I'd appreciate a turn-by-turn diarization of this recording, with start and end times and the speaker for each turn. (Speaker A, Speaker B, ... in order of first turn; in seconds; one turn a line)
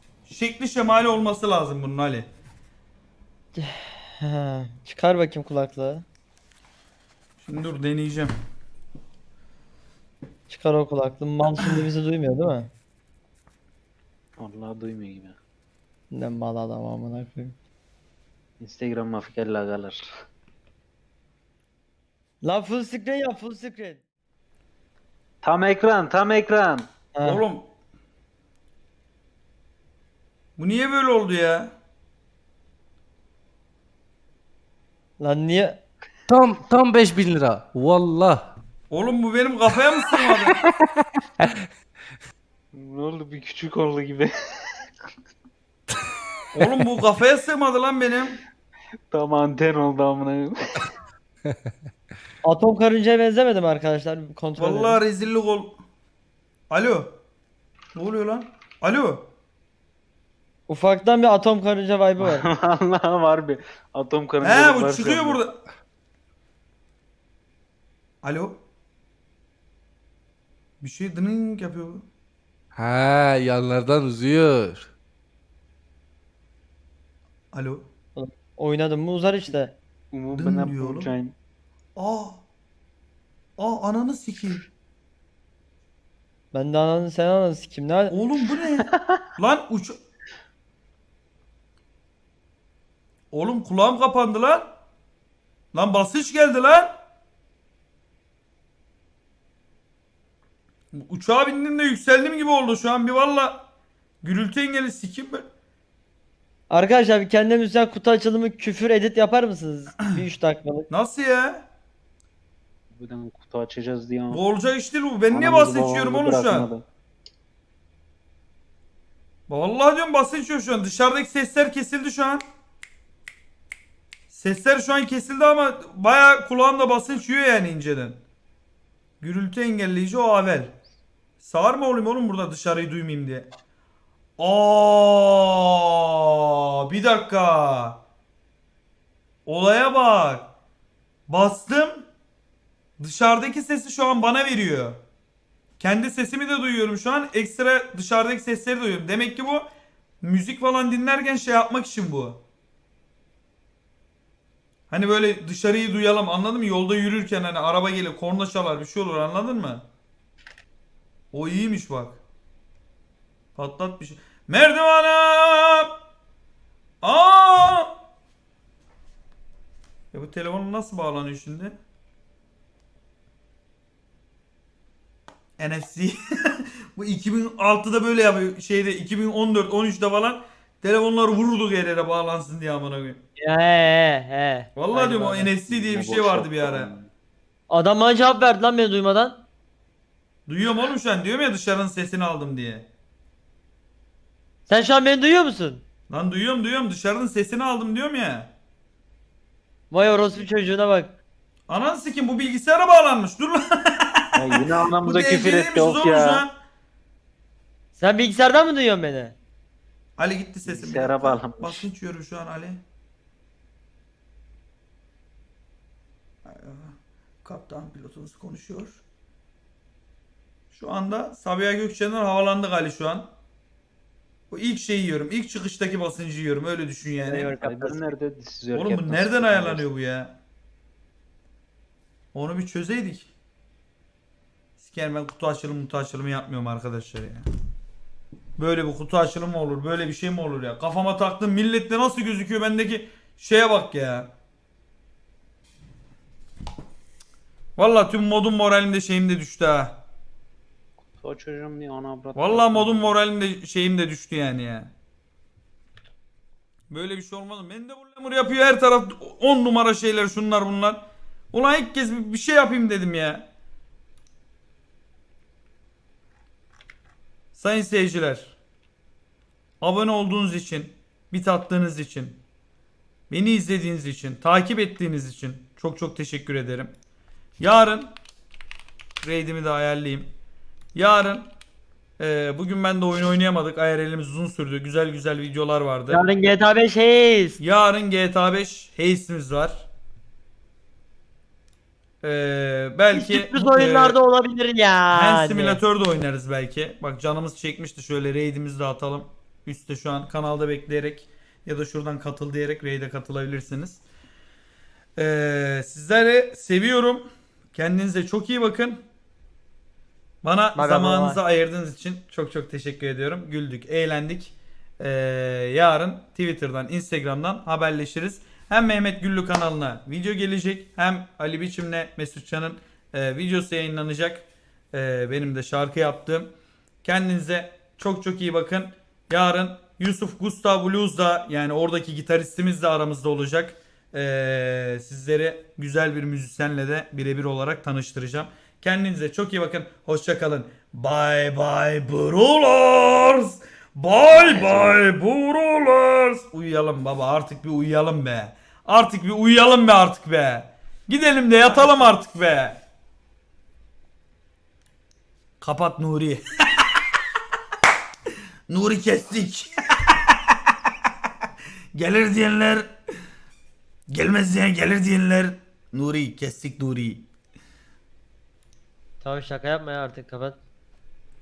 Speaker A: 0.2-2.3
Speaker B: 3.5-6.0
Speaker A: 7.4-8.3
Speaker B: 10.5-12.7
Speaker C: 14.4-15.4
Speaker B: 16.1-17.6
Speaker C: 18.6-20.0
Speaker B: 22.4-24.0
Speaker C: 25.4-26.9
Speaker B: 27.1-27.4
Speaker A: 27.2-27.7
Speaker A: 30.6-31.7
Speaker B: 35.2-35.8
Speaker D: 36.3-38.5
Speaker A: 38.9-40.6
Speaker C: 42.7-44.3
Speaker A: 46.5-48.4
Speaker C: 49.1-50.8
Speaker B: 52.4-55.0
Speaker A: 54.6-55.8
Speaker A: 56.7-57.2
Speaker A: 58.0-59.3
Speaker B: 60.7-62.5
Speaker C: 62.2-65.4
Speaker A: 64.4-65.6
Speaker A: 68.2-68.6
Speaker A: 70.8-72.0
Speaker D: 72.7-74.9
Speaker A: 77.5-77.9
Speaker B: 78.2-79.8
Speaker C: 80.1-81.3
Speaker A: 80.3-81.1
Speaker A: 82.0-82.4
Speaker A: 83.6-84.7
Speaker B: 86.5-88.1
Speaker A: 88.1-90.0
Speaker A: 93.3-94.7
Speaker A: 95.7-97.0
Speaker A: 101.0-103.7
Speaker A: 104.2-105.5
Speaker B: 106.7-110.9
Speaker A: 110.9-111.7
Speaker C: 112.9-114.4
Speaker A: 114.3-116.7
Speaker C: 115.3-116.8
Speaker A: 119.5-122.4
Speaker A: 124.3-128.2
Speaker A: 129.2-130.7
Speaker A: 131.4-133.5
Speaker A: 134.4-138.0
Speaker A: 139.5-140.5
Speaker A: 141.3-142.1
Speaker A: 143.0-145.0
Speaker A: 145.8-149.7
Speaker A: 150.2-152.4
Speaker A: 154.9-159.8
Speaker A: 161.3-162.2
Speaker A: 163.6-165.9
Speaker A: 167.0-167.9
Speaker A: 170.1-171.8
Speaker A: 175.6-183.2
Speaker B: 183.4-185.5
Speaker A: 184.8-186.9
Speaker C: 185.7-187.1
Speaker B: 187.7-189.4
Speaker A: 190.5-192.9
Speaker B: 194.7-195.8
Speaker A: 196.1-198.5
Speaker B: 199.9-201.2
Speaker A: 201.7-206.5
Speaker C: 204.3-206.4
Speaker B: 207.9-209.4
Speaker A: 210.2-212.8
Speaker C: 210.7-211.9
Speaker A: 216.4-219.0
Speaker A: 220.7-223.3
Speaker A: 224.5-227.6
Speaker B: 227.2-228.0
Speaker C: 227.6-229.9
Speaker A: 228.8-230.4
Speaker A: 232.3-233.3
Speaker A: 234.8-237.5
Speaker A: 238.6-244.3
Speaker A: 247.8-250.0
Speaker C: 251.2-253.1
Speaker A: 252.3-254.9
Speaker A: 256.9-263.5
Speaker A: 267.5-268.6
Speaker A: 269.8-272.4
Speaker A: 273.3-276.9
Speaker A: 277.6-278.1
Speaker A: 279.2-280.3
Speaker A: 280.9-281.5
Speaker A: 282.2-286.2
Speaker B: 286.1-287.6
Speaker A: 287.6-289.9
Speaker A: 292.2-294.2
Speaker B: 293.1-295.8
Speaker A: 295.1-304.0
Speaker A: 305.2-309.0
Speaker A: 310.4-326.5
Speaker B: 310.8-311.4
Speaker A: 327.0-352.8
Speaker C: 344.3-345.0
Speaker A: 355.6-356.4
Speaker A: 358.7-360.4
Speaker A: 361.9-362.9
Speaker A: 364.1-367.3
Speaker B: 369.2-370.6